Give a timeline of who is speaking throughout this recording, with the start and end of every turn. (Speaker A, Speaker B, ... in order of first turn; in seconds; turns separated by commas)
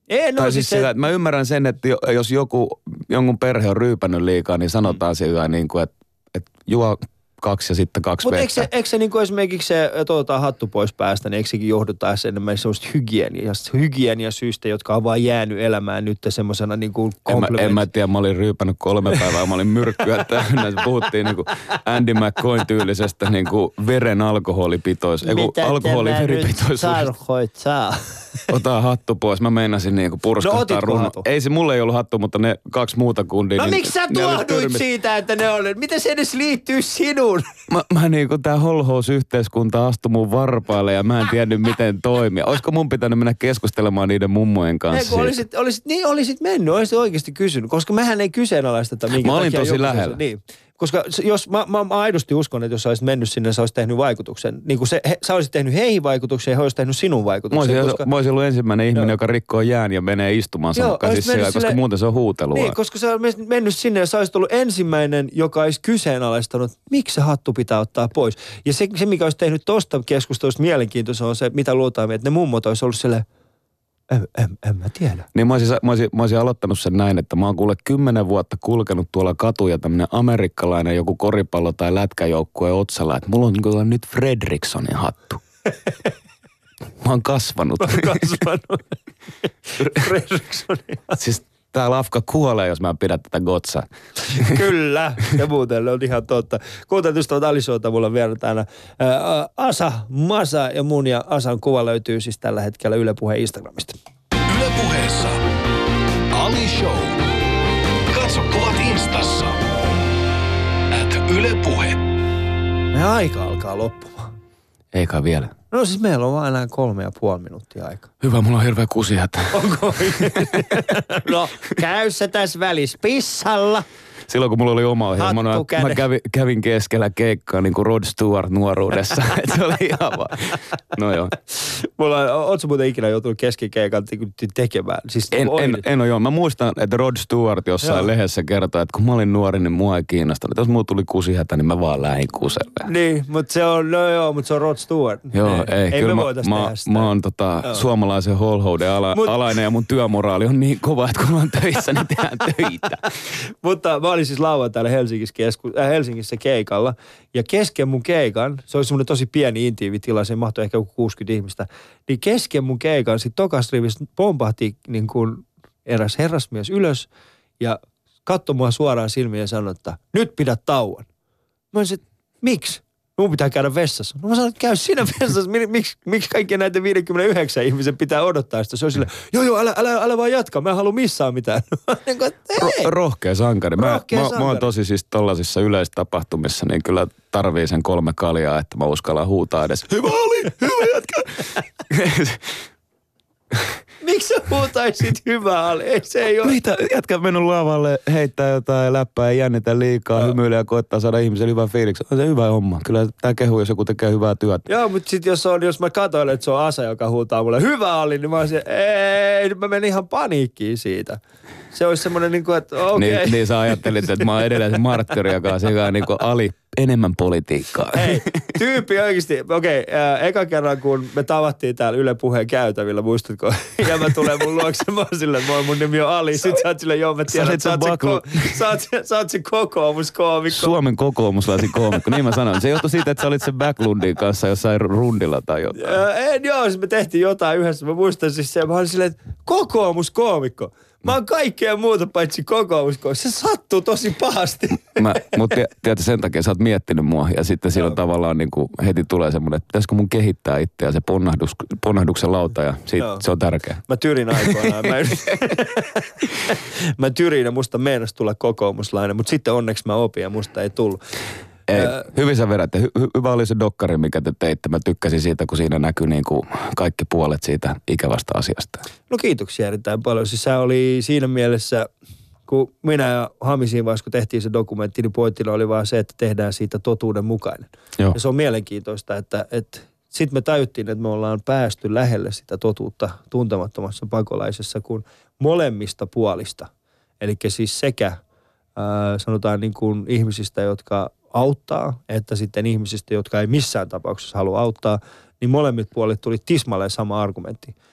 Speaker A: 0.1-0.9, Speaker B: 0.4-8.7, Speaker A: 8.2-17.9, Speaker B: 17.3-27.1, Speaker A: 25.2-28.5, Speaker B: 28.5-34.8, Speaker A: 30.4-31.2, Speaker A: 33.6-37.5, Speaker B: 37.7-45.4, Speaker A: 44.9-58.1, Speaker B: 49.1-50.2, Speaker B: 57.5-62.8, Speaker A: 60.8-61.8, Speaker A: 62.5-73.2, Speaker A: 74.1-75.3, Speaker B: 75.3-85.4, Speaker B: 87.0-88.2, Speaker A: 87.8-89.0, Speaker A: 89.7-91.2, Speaker B: 91.2-94.5, Speaker A: 94.3-103.9, Speaker C: 104.5-105.4, Speaker C: 106.3-107.2, Speaker C: 108.1-109.6, Speaker C: 110.9-112.0, Speaker A: 112.9-114.3, Speaker B: 114.9-115.5, Speaker A: 115.7-118.1, Speaker B: 118.2-119.6, Speaker A: 119.5-123.9, Speaker B: 120.1-120.8, Speaker B: 124.3-131.3, Speaker A: 125.2-126.0, Speaker A: 131.6-135.8, Speaker B: 135.3-142.9, Speaker A: 137.8-138.1, Speaker A: 142.9-147.1, Speaker B: 145.3-153.0, Speaker A: 149.1-149.4, Speaker A: 153.3-167.1, Speaker A: 167.6-171.1, Speaker A: 171.7-182.9, Speaker B: 182.6-192.5, Speaker A: 183.8-184.7, Speaker A: 194.0-196.6, Speaker B: 196.4-204.7, Speaker A: 204.7-211.2, Speaker A: 211.7-213.8, Speaker B: 212.9-218.2, Speaker A: 217.9-230.8, Speaker B: 227.3-228.5, Speaker B: 230.5-236.0, Speaker A: 231.6-232.2, Speaker A: 235.8-245.4, Speaker B: 244.9-253.8, Speaker A: 253.0-253.2, Speaker A: 253.9-261.0, Speaker B: 254.3-254.7, Speaker B: 261.7-268.8, Speaker A: 261.7-262.0, Speaker A: 269.1-271.9, Speaker A: 272.5-288.2, Speaker A: 288.8-297.7